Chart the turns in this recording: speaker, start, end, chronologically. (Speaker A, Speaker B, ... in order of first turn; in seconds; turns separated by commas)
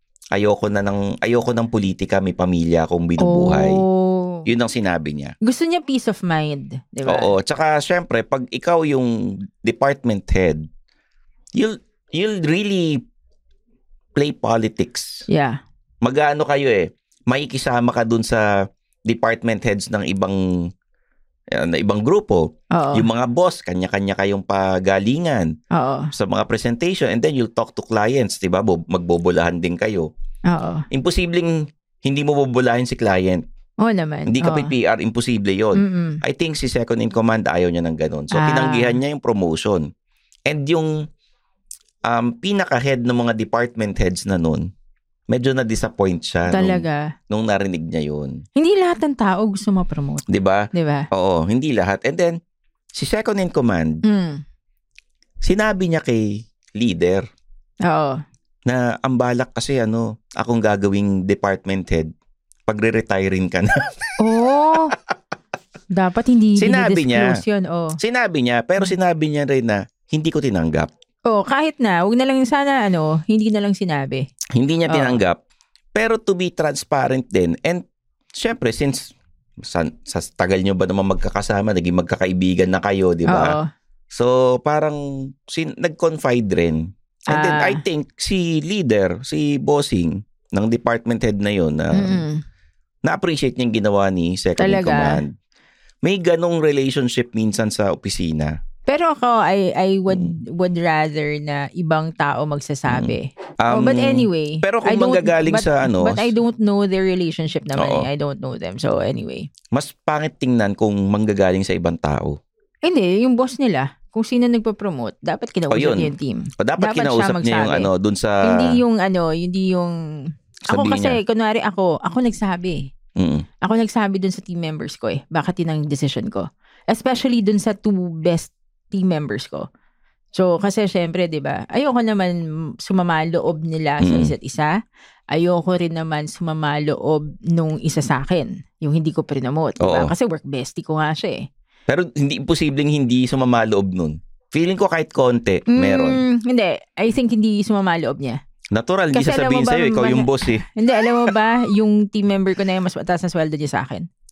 Speaker A: 0.3-3.8, Speaker B: 3.2-4.4, Speaker A: 4.5-5.3, Speaker B: 5.4-7.3, Speaker A: 7.0-10.7, Speaker A: 11.5-13.0, Speaker A: 14.1-15.2, Speaker B: 15.3-15.6, Speaker A: 16.0-18.5, Speaker A: 19.1-20.4, Speaker A: 21.5-25.5, Speaker B: 22.7-23.1, Speaker B: 25.7-26.1, Speaker A: 26.1-30.1, Speaker B: 30.5-30.8, Speaker A: 30.9-33.4, Speaker B: 33.8-34.7, Speaker A: 34.3-39.9, Speaker B: 35.8-36.2, Speaker B: 38.3-39.0, Speaker A: 40.5-40.9, Speaker A: 42.0-44.7, Speaker A: 45.3-48.4, Speaker B: 46.5-47.1, Speaker B: 48.5-51.1, Speaker A: 50.3-52.4, Speaker A: 52.9-54.0, Speaker B: 54.0-54.4, Speaker A: 55.4-57.3, Speaker B: 57.9-58.2, Speaker A: 58.6-62.1, Speaker A: 62.7-63.9, Speaker B: 64.2-64.9, Speaker B: 65.9-68.0, Speaker A: 66.6-67.4, Speaker A: 68.0-70.9, Speaker B: 71.2-74.2, Speaker A: 74.5-75.4, Speaker B: 74.9-75.2, Speaker A: 75.9-83.6, Speaker B: 83.3-83.7, Speaker A: 84.1-92.2, Speaker B: 87.3-87.8, Speaker B: 91.9-92.4, Speaker A: 93.0-95.3, Speaker B: 94.6-95.2, Speaker A: 96.0-98.5, Speaker B: 98.9-109.5, Speaker A: 102.9-106.3, Speaker A: 107.8-108.1, Speaker A: 109.7-112.4, Speaker B: 112.8-117.9, Speaker A: 115.7-118.8, Speaker B: 118.4-120.0, Speaker A: 120.7-121.2, Speaker B: 120.7-122.8, Speaker A: 123.2-123.5, Speaker B: 123.6-129.7, Speaker B: 130.3-134.7, Speaker A: 134.0-134.3, Speaker B: 135.3-141.5, Speaker A: 139.8-140.1, Speaker A: 141.9-146.2, Speaker B: 145.7-148.4, Speaker A: 148.7-150.7, Speaker B: 149.1-154.1